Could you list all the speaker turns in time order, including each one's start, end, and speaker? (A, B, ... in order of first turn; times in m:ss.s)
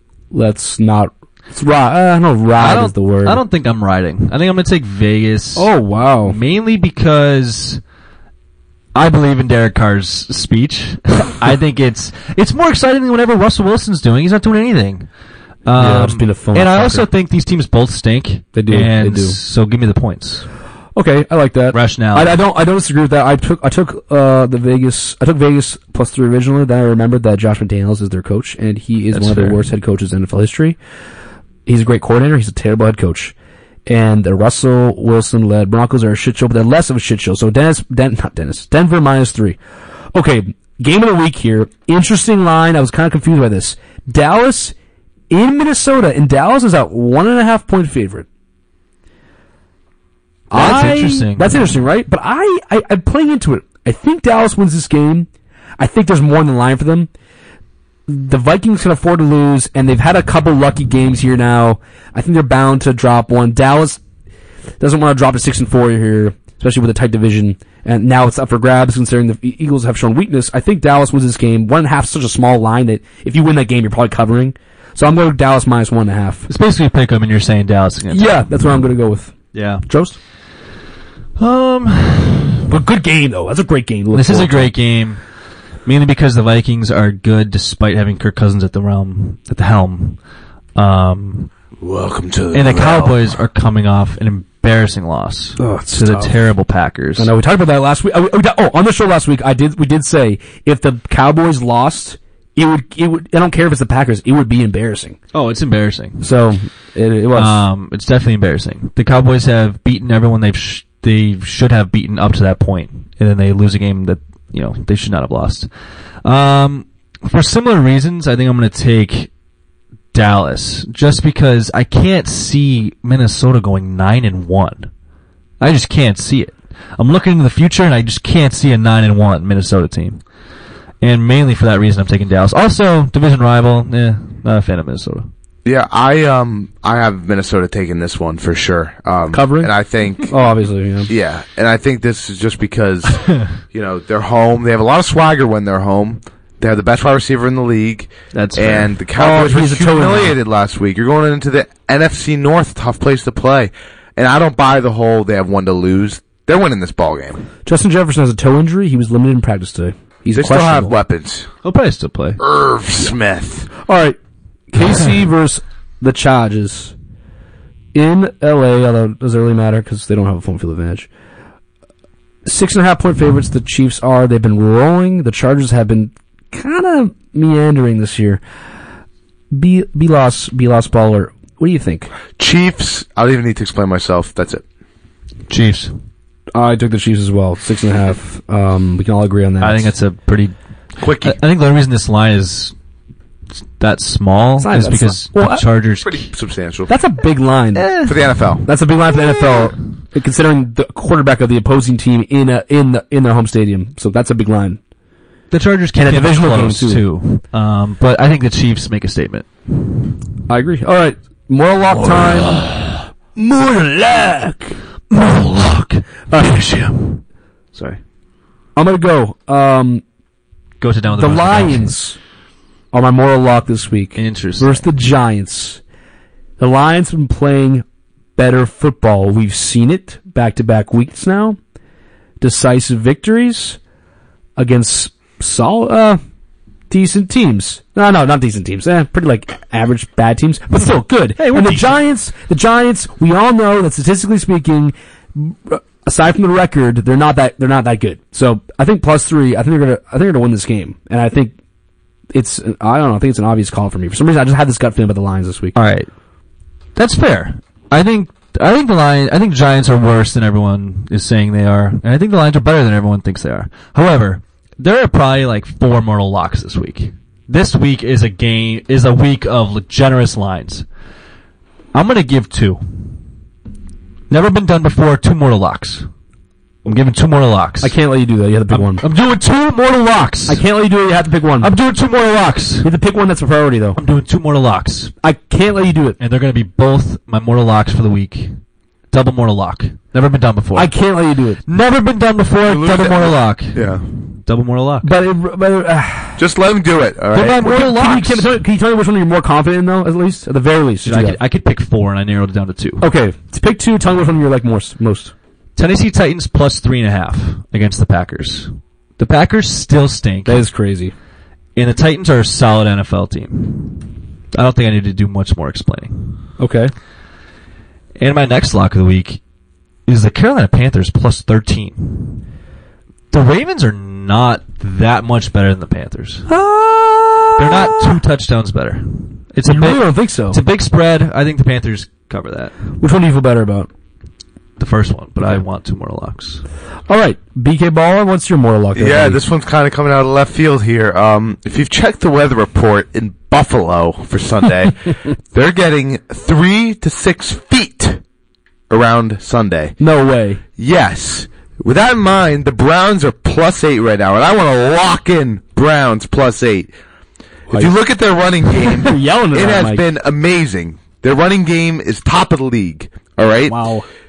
0:00.3-0:03.4 A
0:02.6-0:05.7 B
0:05.6-0:06.4 A
0:06.2-0:07.8 B
0:08.9-0:15.1 B
0:15.6-0:20.5 B
0:15.7-0:17.1 A
0:18.5-0:19.4 A
0:20.9-0:30.8 A
0:21.7-0:22.4 B
0:29.1-0:29.6 B
0:31.6-0:33.3 A
0:33.9-0:39.6 A
0:40.1-0:44.7 A
0:45.3-0:48.3 A
0:50.5-0:55.3 A
0:50.5-0:51.8 B
0:55.8-0:57.1 A
0:58.1-1:04.0 A
1:04.8-1:16.5 A
1:16.5-1:18.5 B
1:18.1-1:19.3 A
1:19.5-1:19.8 B
1:19.9-1:20.2 A
1:21.4-1:22.7 B
1:22.7-1:24.7 A
1:24.1-1:25.2 B
1:25.8-1:30.2 B
1:30.8-1:31.5 B
1:31.8-1:33.2 C
1:32.5-1:37.3 B
1:35.6-1:36.3 A
1:37.2-1:45.2 A
1:45.3-1:46.3 B
1:46.2-1:47.6 A
1:47.3-1:55.7 B
1:56.2-1:59.3 B
2:00.1-2:04.9 B
2:05.6-2:10.2 B
2:11.0-2:15.3 B
2:15.6-2:20.3 C
2:19.3-2:19.7 A
2:20.3-2:21.1 A
2:21.1-2:37.4 C
2:28.3-2:28.9 B
2:29.2-2:30.4 A
2:37.6-2:40.9 A
2:40.3-2:41.5 C
2:41.6-2:42.4 B
2:42.4-2:43.7 C
2:43.8-2:44.2 A
2:44.7-2:46.9 A
2:47.9-2:51.1 A
2:52.4-2:58.4 A
2:59.5-3:02.1 A
3:02.4-3:04.6 C
3:05.5-3:05.9 B
3:06.5-3:09.9 A
3:09.6-3:10.5 B
3:11.0-3:11.4 C
3:11.2-3:12.7 B
3:13.8-3:16.3 B
3:14.6-3:15.6 A
3:16.0-3:16.9 C
3:16.9-3:17.9 A
3:17.7-3:18.2 B
3:18.0-3:18.6 C
3:18.6-3:24.8 A
3:19.1-3:19.6 B
3:25.5-3:29.9 B
3:26.0-3:27.0 A
3:30.5-3:32.6 A
3:32.5-3:32.9 B
3:33.4-3:34.8 A
3:35.1-3:37.2 B
3:37.7-3:38.0 B
3:38.8-3:40.0 A
3:40.8-3:41.9 B
3:41.2-3:42.2 A
3:42.9-3:45.8 A
3:44.2-3:44.8 B
3:46.6-3:47.8 A
3:48.4-3:51.6 A
3:52.4-3:53.8 A
3:54.6-3:56.2 A
3:56.9-4:11.5 A
4:01.4-4:02.0 B
4:12.3-4:15.7 A
4:15.7-4:16.1 B
4:17.0-4:30.8 B
4:31.9-4:33.1 B
4:34.3-4:36.1 B
4:36.8-4:37.9 B
4:37.8-4:39.0 A
4:38.7-4:40.6 B
4:40.5-4:41.7 A
4:41.6-4:42.9 B
4:42.8-4:44.0 A
4:44.0-4:45.1 B
4:45.2-4:46.2 A
4:46.2-4:48.6 B
4:49.1-4:50.9 B
4:50.7-4:51.6 A
4:51.6-4:55.1 B
4:52.6-4:54.0 C
4:55.0-4:56.4 A
4:56.4-4:57.7 C
4:57.3-4:58.5 B
4:57.4-5:01.4 A
5:01.0-5:03.0 B
5:03.0-5:05.3 A
5:05.8-5:10.6 B
5:10.4-5:11.1 A
5:11.8-5:16.4 B
5:16.6-5:16.9 A
5:18.2-5:19.4 B
5:20.1-5:22.4 B
5:23.3-5:26.5 B
5:26.5-5:28.2 A
5:27.5-5:32.7 B
5:29.7-5:30.6 A
5:33.0-5:33.9 A
5:34.8-5:36.6 B
5:37.1-5:39.4 A
5:38.9-5:48.2 C
5:48.9-5:49.9 C
5:50.0-5:50.6 A
5:50.8-5:56.9 C
5:57.7-6:03.8 C
5:58.7-6:00.0 A
6:03.7-6:04.0 A